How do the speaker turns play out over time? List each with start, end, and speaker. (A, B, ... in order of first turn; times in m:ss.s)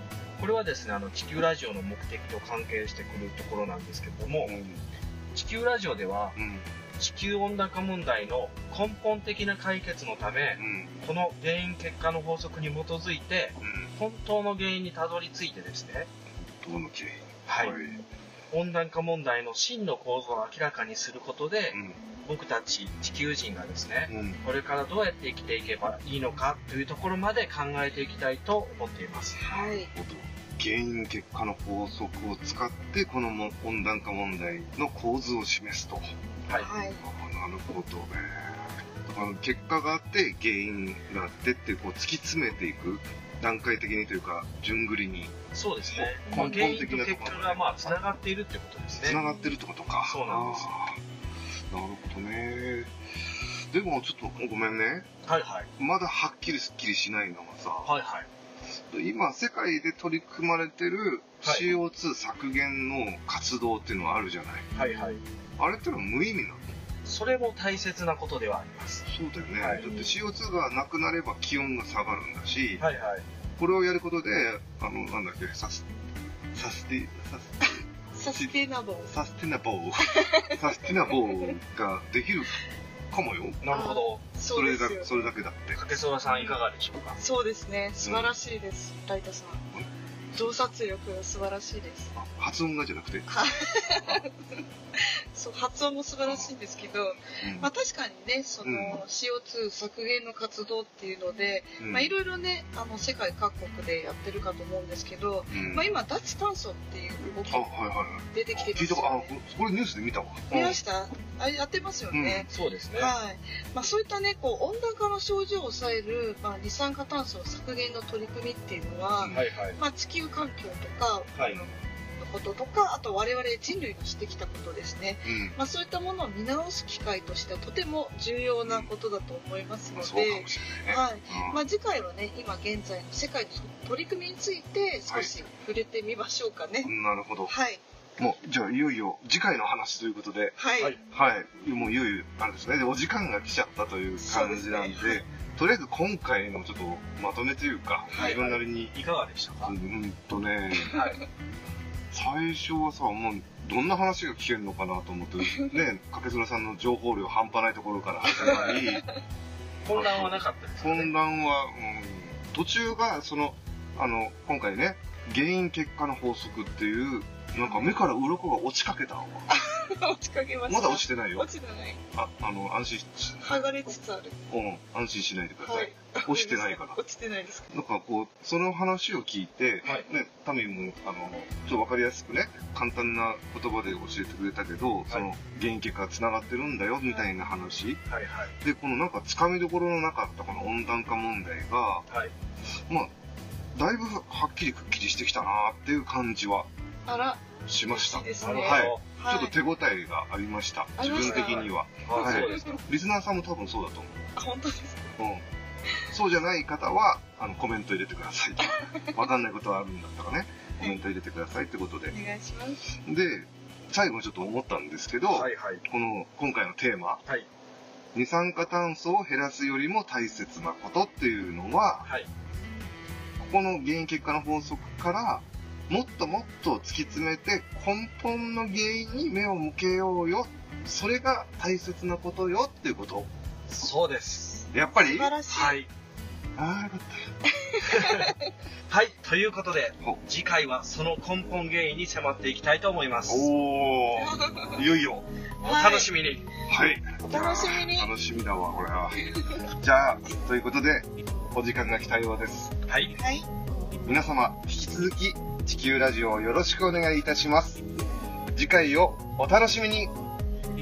0:00.4-0:04.5 A
0:04.4-0:04.8 B
0:05.3-0:06.4 A
0:06.4-0:06.7 B
0:07.0-0:16.1 A
0:10.6-0:11.0 B
0:13.6-0:13.9 B
0:16.4-0:18.0 B
0:17.5-0:17.8 A
0:18.5-0:29.5 A
0:21.7-0:22.0 B
0:24.1-0:24.4 B
0:29.4-0:29.9 C
0:29.8-0:36.1 B
0:36.5-0:37.0 C
0:37.0-0:45.4 B
0:45.5-0:49.2 A
0:45.9-0:48.0 B
0:46.2-0:46.8 C
0:49.0-0:51.0 B
0:49.1-0:49.5 C
0:50.0-0:50.7 A
0:51.7-0:52.9 B
0:53.7-0:55.1 B
0:55.2-0:55.7 A
0:55.8-0:57.9 B
0:57.8-0:58.3 A
0:58.9-1:04.7 B
1:01.4-1:01.7 A
1:04.7-1:05.2 A
1:04.8-1:05.2 C
1:05.6-1:06.6 B
1:07.0-1:09.0 A
1:09.1-1:12.8 B
1:09.6-1:09.8 A
1:09.7-1:10.1 C
1:12.8-1:13.2 A
1:13.6-1:15.8 B
1:16.5-1:17.7 B
1:17.6-1:19.1 C
1:19.1-1:22.6 B
1:20.1-1:21.5 C
1:23.1-1:23.8 B
1:23.6-1:24.2 A
1:23.7-1:25.3 C
1:24.5-1:26.0 B
1:25.7-1:27.2 A
1:27.2-1:29.7 C
1:28.0-1:28.3 B
1:29.7-1:30.5 B
1:30.3-1:32.1 C
1:32.2-1:33.3 B
1:33.3-1:34.4 C
1:33.8-1:34.2 B
1:35.0-1:47.7 C
1:37.4-1:37.7 B
1:38.6-1:39.0 B
1:41.8-1:42.1 B
1:45.5-1:45.9 B
1:47.5-1:50.8 B
1:48.3-1:49.3 C
1:50.5-2:16.9 C
1:52.1-1:52.5 B
1:52.5-1:53.1 A
1:59.2-1:59.4 B
1:59.3-1:59.8 A
2:01.4-2:01.6 A
2:05.2-2:05.6 B
2:09.9-2:11.6 B
2:16.8-2:17.5 B
2:17.5-2:17.8 C
2:18.2-2:28.9 B
2:20.6-2:21.0 C
2:24.2-2:25.2 C
2:28.1-2:28.4 C
2:28.1-2:29.7 A
2:29.6-2:31.0 B
2:30.9-2:31.2 A
2:32.1-2:39.0 B
2:38.3-2:38.9 A
2:39.8-2:41.1 A
2:39.9-2:49.5 B
2:47.6-2:47.9 C
2:49.5-2:52.0 C
2:50.7-2:51.5 B
2:52.1-2:53.4 B
2:53.4-2:54.4 C
2:54.5-2:57.0 B
2:55.6-2:57.7 C
2:57.7-3:08.0 B
3:07.0-3:07.3 C
3:08.1-3:08.5 A
3:08.6-3:12.0 B
3:12.1-3:12.3 A
3:13.7-3:16.7 B
3:17.0-3:19.5 C
3:17.7-3:24.3 B
3:18.4-3:19.0 A
3:21.0-3:22.8 C
3:21.1-3:22.8 A
3:24.4-3:25.1 C
3:25.2-3:25.4 B
3:26.1-3:32.1 B
3:28.7-3:29.1 C
3:32.1-3:32.9 C
3:33.0-3:37.2 B
3:35.3-3:35.8 A
3:38.1-3:42.1 B
3:43.4-3:53.3 B
3:53.7-3:54.6 A
3:54.7-3:55.4 B
3:55.0-3:55.8 C
3:55.5-3:55.9 A
3:56.6-3:57.3 B
3:57.5-3:58.3 C
3:57.8-3:58.3 A
3:58.9-4:03.5 A
4:03.3-4:05.2 B
4:04.2-4:04.8 C
4:05.6-4:07.0 A
4:05.6-4:06.1 C
4:06.7-4:12.8 B
4:07.2-4:08.1 C
4:12.9-4:13.1 A
4:13.2-4:13.5 C
4:14.0-4:17.8 B
4:18.5-4:20.1 B